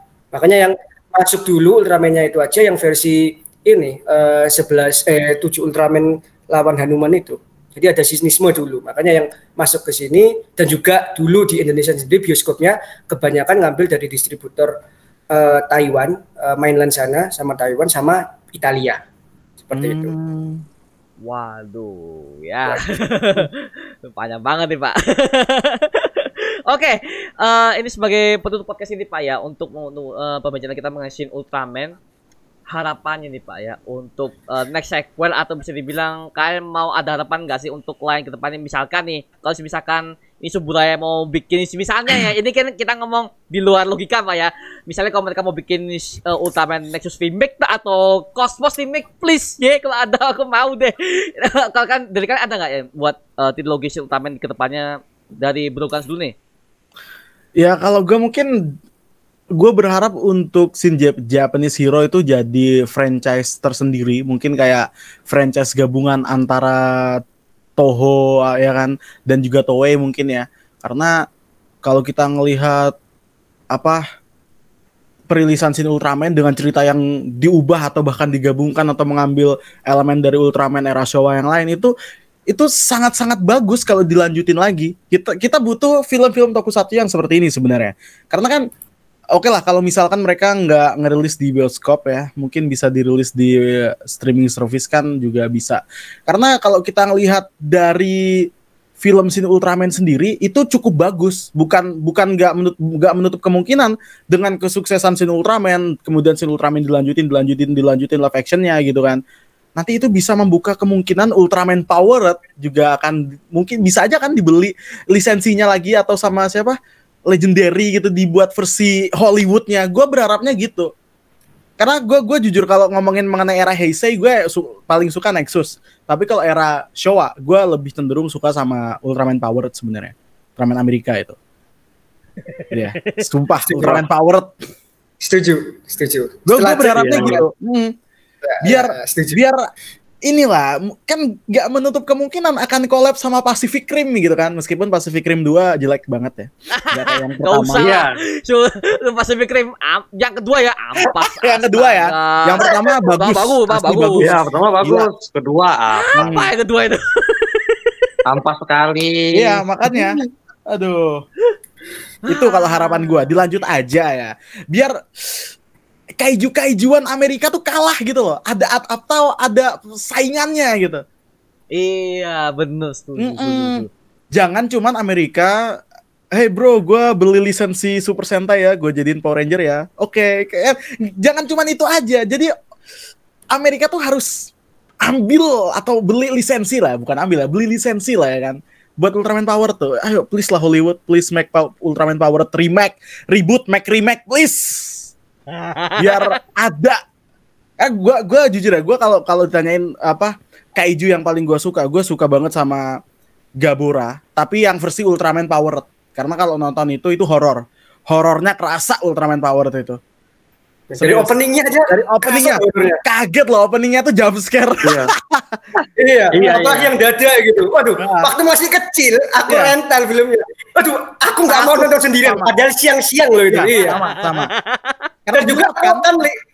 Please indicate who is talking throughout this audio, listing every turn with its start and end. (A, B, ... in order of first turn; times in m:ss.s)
0:00.3-0:14.8 A
0:15.3-0:19.0 A
0:19.6-0:20.1 A
0:19.7-0:20.6 B
0:21.2-0:32.0 C
0:32.7-0:56.4 C
0:57.6-0:58.7 B
0:59.6-1:07.2 B
1:07.8-1:11.2 B
1:11.8-1:13.0 B
1:13.7-1:14.0 B
1:15.3-1:21.9 B
1:22.5-1:28.7 B
1:29.4-1:38.5 B
1:39.0-1:49.2 B
1:49.8-1:56.8 B
1:57.3-2:00.9 B
2:01.8-2:11.4 B
2:12.5-2:13.2 C
2:12.7-2:14.5 B
2:13.7-2:14.0 A
2:15.2-2:17.4 A
2:16.5-2:17.9 B
2:17.0-2:17.4 D
2:18.4-2:19.4 A
2:18.6-2:19.6 B
2:20.2-2:27.9 B
2:26.7-2:34.3 C
2:27.8-2:28.2 D
2:31.4-2:35.1 B
2:34.2-2:36.3 D
2:36.0-2:37.9 C
2:36.2-2:36.5 B
2:38.3-2:40.3 D
2:39.3-2:41.2 B
2:42.2-2:43.4 C
2:42.2-2:45.5 B
2:46.2-2:51.0 B
2:51.7-2:53.9 C
2:53.2-2:55.6 B
2:56.3-3:02.5 B
3:03.5-3:04.5 B
3:05.0-3:15.1 B
3:15.5-3:16.4 C
3:16.0-3:17.0 B
3:17.8-3:22.9 B
3:23.6-3:30.0 B
3:30.9-3:33.0 A
3:31.0-3:31.3 B
3:31.9-3:35.6 B
3:34.8-3:35.1 D
3:35.8-3:36.9 D
3:36.0-3:44.0 A
3:38.0-3:38.3 B
3:39.5-3:39.7 B
3:41.5-3:42.5 B
3:43.5-3:44.5 B
3:43.8-3:45.0 C
3:45.3-3:46.0 B
3:45.3-3:46.4 A